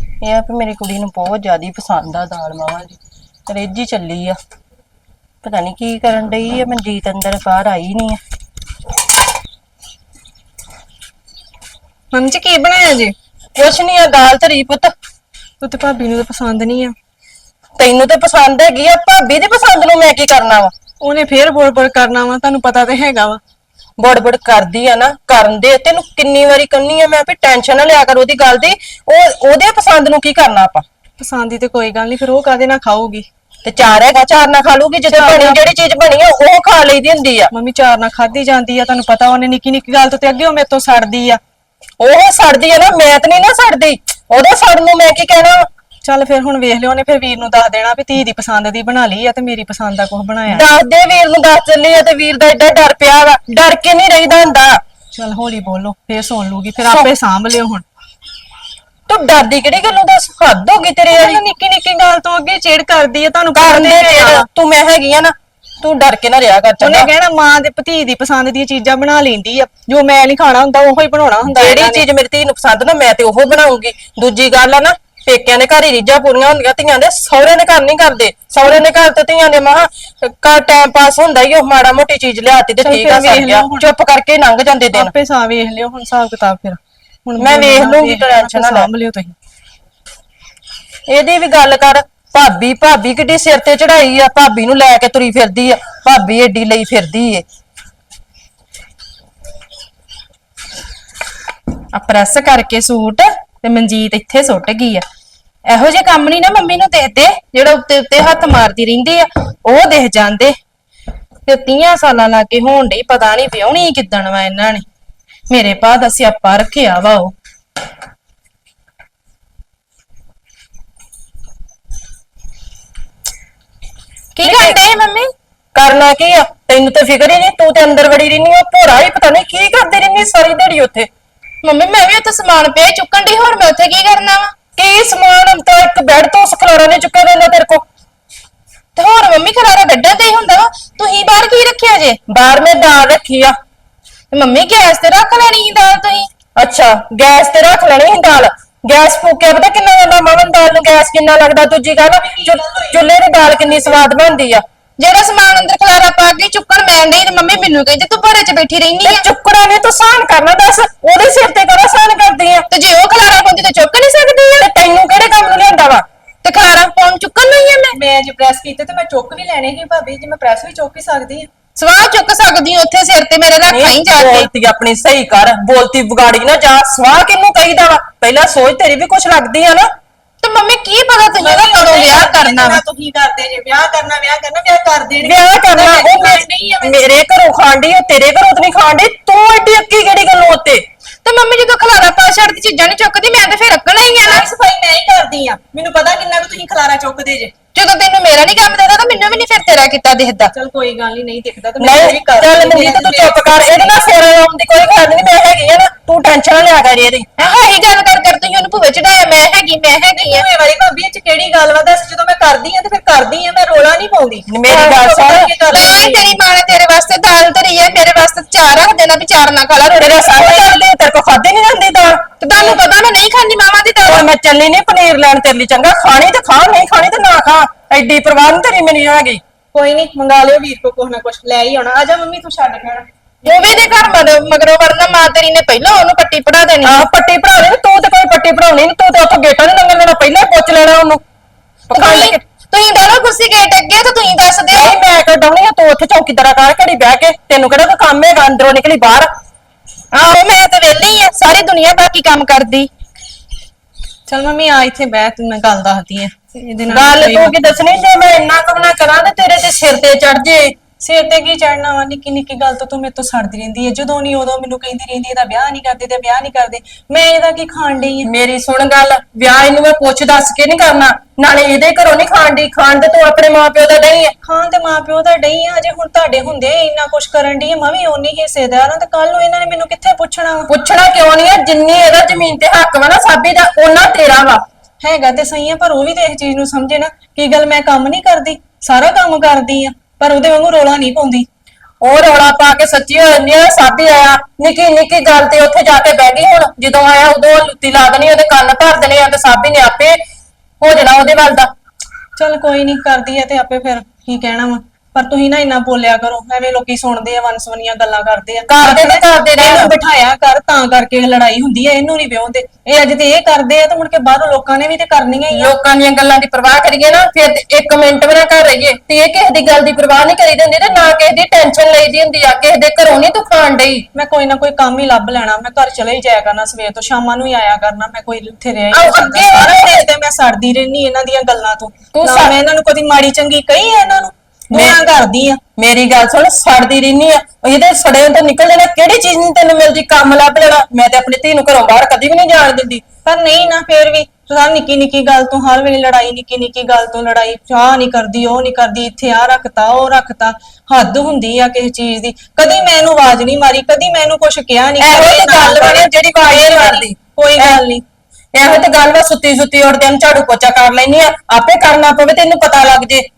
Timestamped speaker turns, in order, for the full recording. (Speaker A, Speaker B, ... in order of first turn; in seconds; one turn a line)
Speaker A: 0.2-4.4
Speaker A: 5.4-8.2
Speaker B: 12.1-13.1
Speaker A: 13.5-14.9
Speaker B: 15.6-16.9
Speaker A: 17.8-20.7
Speaker B: 21.0-23.4
Speaker A: 24.0-30.8
Speaker B: 31.2-33.3
Speaker A: 33.6-37.5
Speaker B: 35.0-35.6
Speaker B: 37.5-41.4
Speaker A: 42.0-45.7
Speaker B: 46.0-50.7
Speaker A: 50.5-54.8
Speaker B: 55.1-57.8
Speaker A: 56.8-57.1
Speaker A: 59.1-61.4
Speaker B: 61.1-64.5
Speaker A: 63.5-67.1
Speaker B: 66.8-72.0
Speaker A: 71.5-85.1
Speaker B: 82.8-83.9
Speaker B: 84.9-89.3
Speaker A: 87.4-88.9
Speaker A: 91.1-97.4
Speaker C: 101.9-105.0
Speaker C: 105.7-110.5
Speaker C: 111.5-114.8
Speaker C: 115.5-117.3
Speaker C: 124.3-125.3
Speaker A: 124.4-124.8
Speaker A: 125.7-131.1
Speaker C: 131.6-134.5
Speaker A: 134.8-137.8
Speaker C: 138.9-142.2
Speaker A: 142.3-143.6
Speaker C: 144.3-146.3
Speaker A: 146.6-154.6
Speaker B: 152.1-154.0
Speaker C: 155.0-159.3
Speaker A: 159.0-162.7
Speaker C: 162.7-164.7
Speaker A: 164.6-166.0
Speaker C: 166.4-168.0
Speaker B: 167.9-171.5
Speaker C: 171.8-174.5
Speaker A: 173.7-179.9
Speaker C: 180.4-182.8
Speaker B: 181.4-187.2
Speaker A: 185.2-190.8
Speaker C: 191.2-194.5
Speaker B: 194.0-197.5
Speaker C: 197.7-200.5
Speaker B: 200.5-204.1
Speaker A: 201.8-207.3
Speaker C: 207.4-210.4
Speaker B: 210.2-216.3
Speaker A: 214.5-215.5
Speaker C: 215.7-220.8
Speaker A: 220.0-222.8
Speaker C: 222.4-224.3
Speaker A: 224.0-229.4
Speaker B: 229.7-233.8
Speaker C: 233.4-237.1
Speaker A: 236.8-241.2
Speaker A: 241.9-242.4
Speaker C: 241.9-245.0
Speaker A: 244.7-249.3
Speaker C: 250.1-252.9
Speaker B: 254.3-257.6
Speaker A: 256.9-260.8
Speaker B: 261.0-268.3
Speaker A: 268.2-274.3
Speaker B: 274.4-280.7
Speaker A: 280.7-284.6
Speaker B: 285.0-291.5
Speaker A: 292.0-300.2
Speaker A: 300.8-301.7
Speaker B: 302.4-315.7
Speaker A: 308.7-309.9
Speaker A: 315.5-324.0
Speaker B: 324.1-335.6
Speaker A: 328.9-330.1
Speaker A: 332.1-332.6
Speaker A: 334.7-335.0
Speaker A: 335.8-343.0
Speaker B: 343.2-358.0
Speaker A: 355.0-357.8
Speaker A: 358.5-363.3